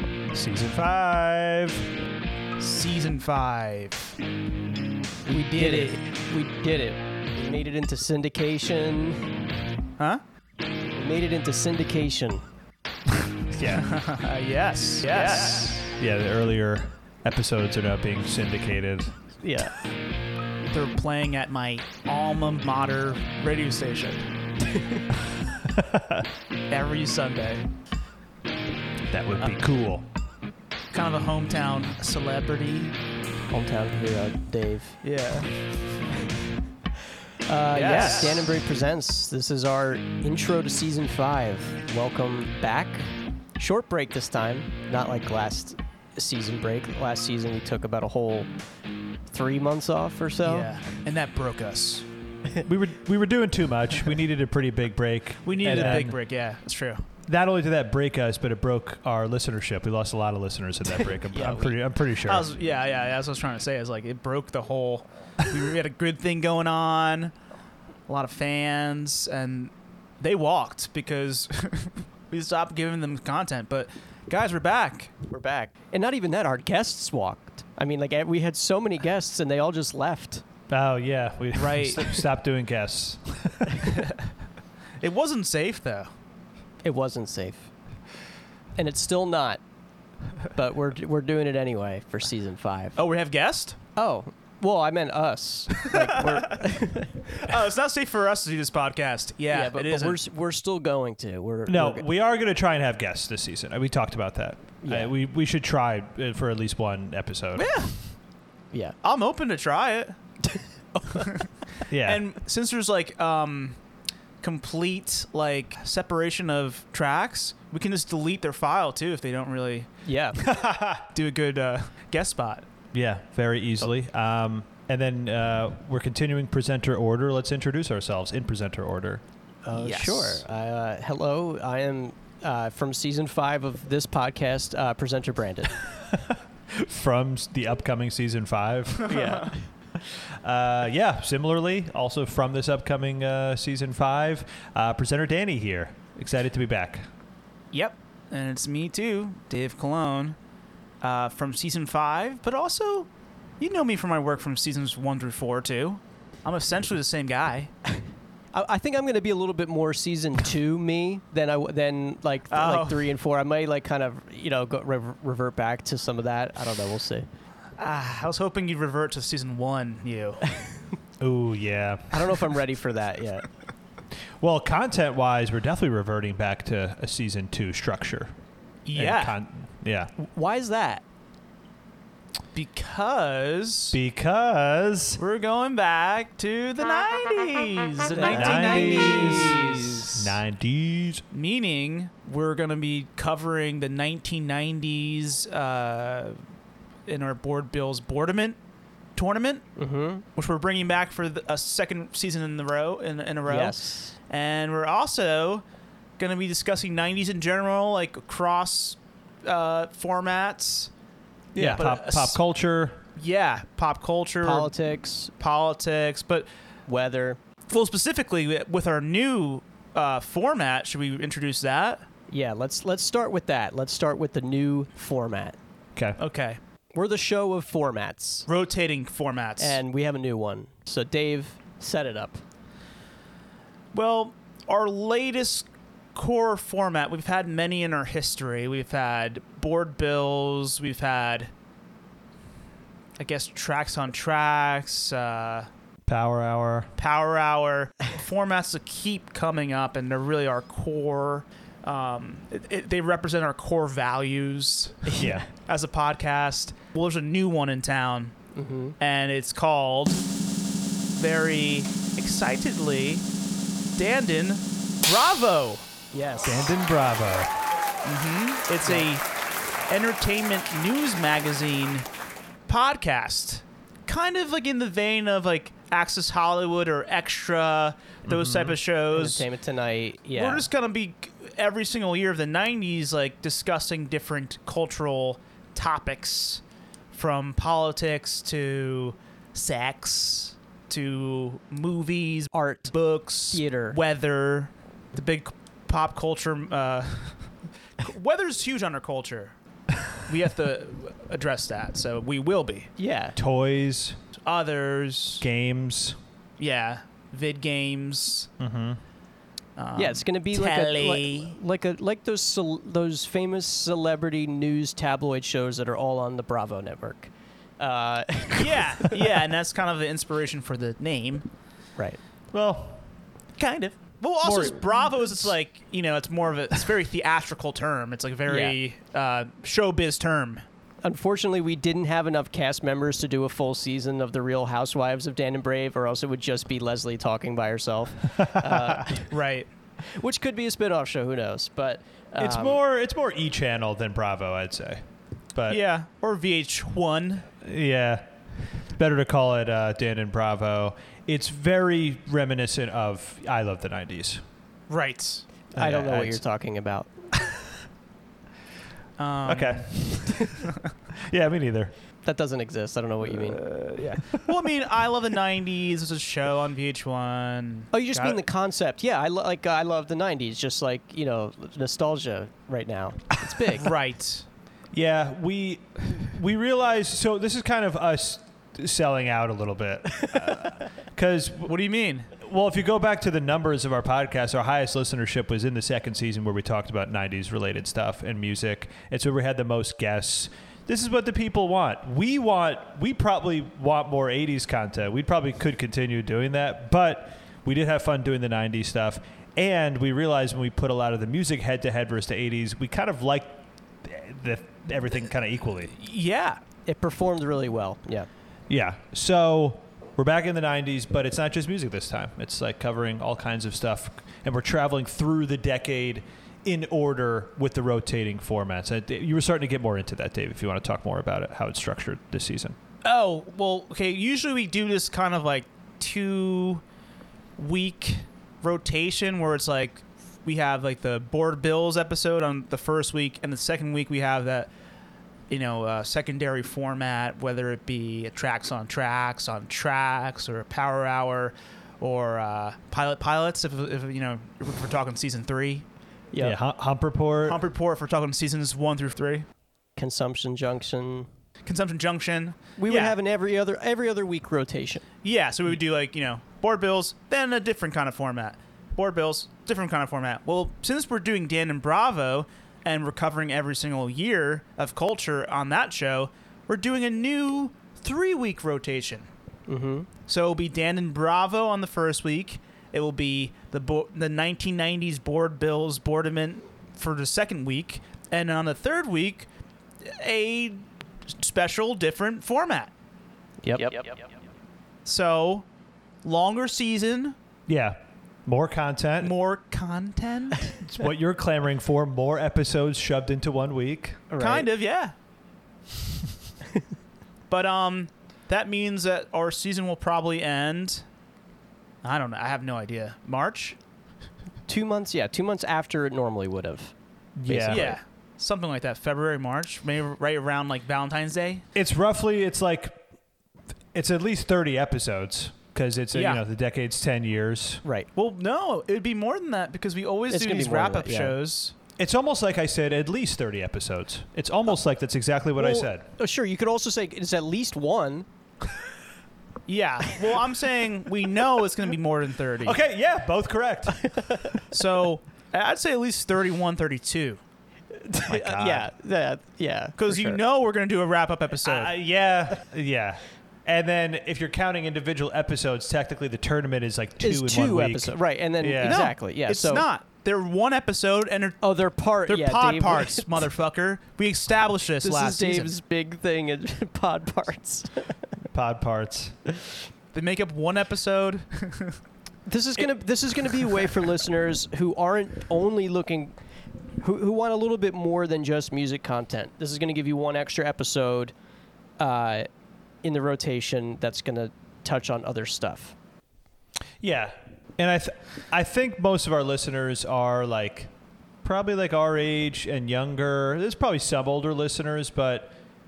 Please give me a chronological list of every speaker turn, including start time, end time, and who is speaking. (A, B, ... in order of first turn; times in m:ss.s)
0:00.3-0:01.9 A
0:02.6-0:04.2 B
0:05.3-0:09.3 C
0:05.5-0:05.9 B
0:10.9-0:12.4 C
0:13.6-0:13.9 A
0:13.6-0:16.0 B
0:15.1-0:15.8 C
0:15.2-0:19.1 A
0:19.4-0:19.8 C
0:20.7-0:24.3 B
0:24.7-0:25.0 C
0:25.6-0:26.3 A
0:26.7-0:27.7 B
0:29.1-0:30.0 A
0:30.9-0:33.0 B
0:33.5-0:35.0 C
0:35.0-0:35.5 B
0:37.5-0:48.5 C
0:37.7-0:38.5 B
0:49.3-0:50.7 C
0:50.4-0:52.1 B
0:52.6-0:56.2 A
0:55.4-0:57.0 B
0:55.7-0:56.1 C
0:57.3-1:02.5 A
1:01.3-1:01.8 C
1:02.2-1:07.3 B
1:08.1-1:15.1 B
1:15.3-1:20.4 C
1:20.7-1:24.0 A
1:21.5-1:22.2 B
1:25.0-1:26.1 B
1:26.8-1:27.7 C
1:28.8-1:29.6 C
1:30.6-1:33.0 C
1:33.0-1:33.8 B
1:34.0-1:37.2 C
1:35.9-1:36.6 B
1:37.3-1:40.2 B
1:39.5-1:42.1 C
1:41.7-1:47.8 A
1:44.8-1:45.1 C
1:47.6-1:47.9 B
1:49.0-1:50.2 B
1:50.5-1:51.3 C
1:51.2-1:53.8 B
1:51.9-1:52.2 A
1:54.4-2:02.6 B
2:00.0-2:00.4 C
2:00.5-2:01.0 A
2:02.9-2:09.2 A
2:09.6-2:15.8 C
2:09.7-2:10.4 B
2:16.0-2:19.2 A
2:19.1-2:19.6 C
2:19.1-2:19.5 B
2:20.0-2:27.1 A
2:27.7-2:30.4 B
2:31.0-2:33.1 B
2:33.6-2:37.7 B
2:38.5-2:47.3 C
2:42.5-2:43.1 B
2:47.8-2:50.4 B
2:51.2-2:52.4 A
2:52.1-2:53.5 C
2:54.4-2:58.3 A
2:58.9-2:59.4 B
2:58.9-3:00.1 A
3:00.2-3:01.0 C
3:02.6-3:04.0 B
3:03.9-3:05.2 A
3:05.2-3:09.8 B
3:08.1-3:10.2 C
3:08.4-3:11.2 A
3:11.3-3:16.4 B
3:17.1-3:18.6 B
3:19.2-3:19.6 B
3:19.8-3:20.2 C
3:20.4-3:25.6 B
3:23.5-3:24.2 C
3:26.2-3:30.9 B
3:31.6-3:31.8 C
3:31.6-3:33.0 A
3:31.6-3:32.4 B
3:33.2-3:34.7 B
3:34.4-3:35.3 C
3:35.4-3:36.5 B
3:36.9-3:37.4 C
3:37.7-3:42.1 B
3:42.3-3:45.6 C
3:46.2-3:46.6 B
3:47.0-3:48.5 C
3:48.5-3:49.8 B
3:49.6-3:52.4 C
3:53.9-4:01.5 B
4:03.2-4:05.7 B
4:06.1-4:06.9 A
4:07.0-4:18.4 B
4:15.2-4:15.5 A
4:18.6-4:19.0 C
4:19.0-4:20.2 B
4:21.1-4:23.2 B
4:24.0-4:25.9 B
4:26.1-4:26.7 C
4:26.4-4:27.5 A
4:28.0-4:29.2 B
4:29.9-4:32.1 B
4:32.7-4:39.5 B
4:38.3-4:38.8 A
4:39.1-4:40.7 C
4:40.4-4:46.6 B
4:47.1-4:59.6 B
4:52.5-4:52.9 C
4:53.5-4:54.0 C
5:00.2-5:02.9 B
5:03.0-5:03.4 C
5:03.4-5:04.2 A
5:04.4-5:05.4 B
5:05.4-5:06.2 A
5:06.6-5:08.5 B
5:08.6-5:09.0 A
5:09.8-5:11.6 B
5:10.0-5:19.2 C
5:18.6-5:21.4 B
5:22.5-5:23.0 A
5:23.6-5:30.6 B
5:24.4-5:25.0 C
5:28.5-5:28.8 C
5:31.0-5:39.3 C
5:38.4-5:39.0 A
5:39.3-5:39.7 B
5:40.1-5:42.8 C
5:42.4-5:45.8 A
5:45.7-5:47.5 B
5:47.6-5:48.3 A
5:48.9-5:54.4 A
5:54.9-5:55.4 B
5:55.7-5:57.1 C
5:55.8-5:56.4 A
5:59.2-6:00.2 B
5:59.5-6:00.5 A
6:01.1-6:01.9 A
6:02.2-6:03.6 C
6:03.4-6:08.4 B
6:04.2-6:04.5 A
6:07.9-6:13.9 C
6:13.7-6:14.5 B
6:14.9-6:21.8 A
6:21.6-6:22.3 B
6:22.4-6:45.9 A
6:46.0-6:46.6 B
6:46.9-6:48.3 C
6:48.7-7:02.8 A
7:03.0-7:06.8 B
7:07.6-7:14.7 B
7:15.5-7:25.8 B
7:26.4-7:27.6 A
7:27.4-7:29.5 B
7:30.0-7:31.3 C
7:31.6-7:33.2 B
7:32.8-7:35.0 C
7:35.2-7:49.3 B
7:49.7-7:50.1 C
7:50.3-7:59.5 B
8:00.0-8:02.9 B
8:03.6-8:04.0 C
8:05.0-8:05.7 B
8:06.2-8:07.4 B
8:07.7-8:09.3 A
8:09.2-8:10.8 B
8:10.8-8:14.2 A
8:14.3-8:14.7 C
8:14.4-8:15.1 B
8:17.5-8:21.0 B
8:22.0-8:23.8 B
8:24.7-8:26.9 C
8:27.4-8:27.9 A
8:27.5-8:28.0 C
8:27.7-8:31.6 B
8:31.8-8:33.0 A
8:33.9-8:37.8 A
8:36.1-8:36.4 B
8:38.2-8:41.8 B
8:40.3-8:41.4 C
8:42.0-8:46.1 A
8:45.6-8:48.3 C
8:49.7-8:52.8 B
8:52.6-8:54.6 A
8:54.1-8:54.5 C
8:54.7-8:57.4 B
8:57.9-9:00.4 C
8:58.3-8:58.9 A
9:00.0-9:01.9 B
9:01.6-9:09.1 A
9:07.2-9:09.9 C
9:08.8-9:11.6 B
9:11.6-9:13.4 C
9:12.2-9:15.7 B
9:15.0-9:18.1 C
9:18.5-9:19.3 A
9:20.1-9:22.0 B
9:22.5-9:26.3 C
9:27.0-9:31.3 C
9:32.0-9:32.5 C
9:33.0-9:36.0 C
9:37.0-9:40.9 A
9:41.4-9:45.6 A